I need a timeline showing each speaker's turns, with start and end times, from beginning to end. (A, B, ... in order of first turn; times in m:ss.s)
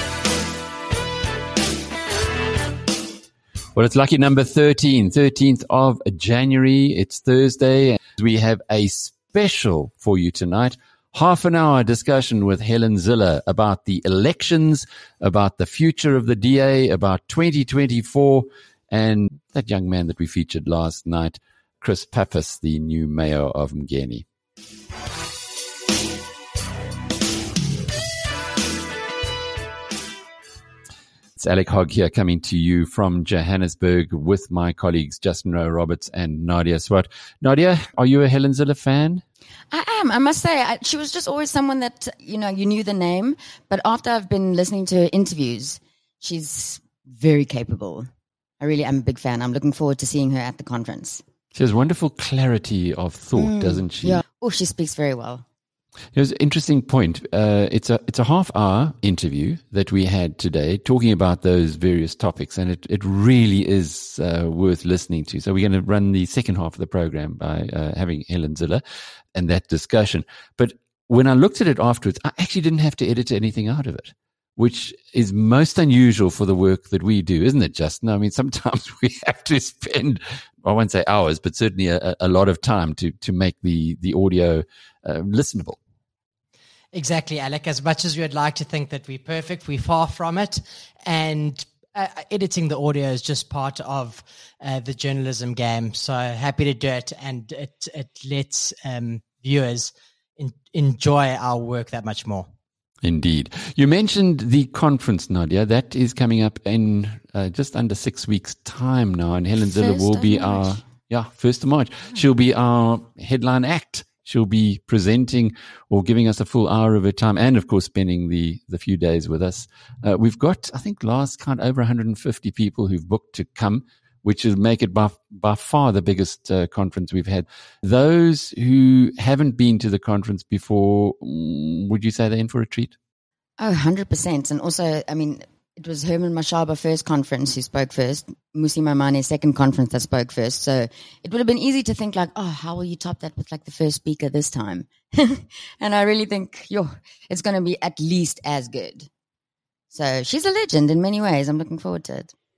0:03.8-0:24.2 A
0:31.4-0:39.2 A
0:39.7-0:48.1 B
0:48.6-0:51.2 B
0:51.5-0:54.2 A
0:53.4-0:55.4 B
0:56.1-1:08.8 A
1:09.4-1:25.8 A
1:26.9-1:42.5 C
1:43.0-2:13.0 A
1:49.6-1:50.9 B
2:13.6-2:29.1 B
2:29.9-2:32.3 B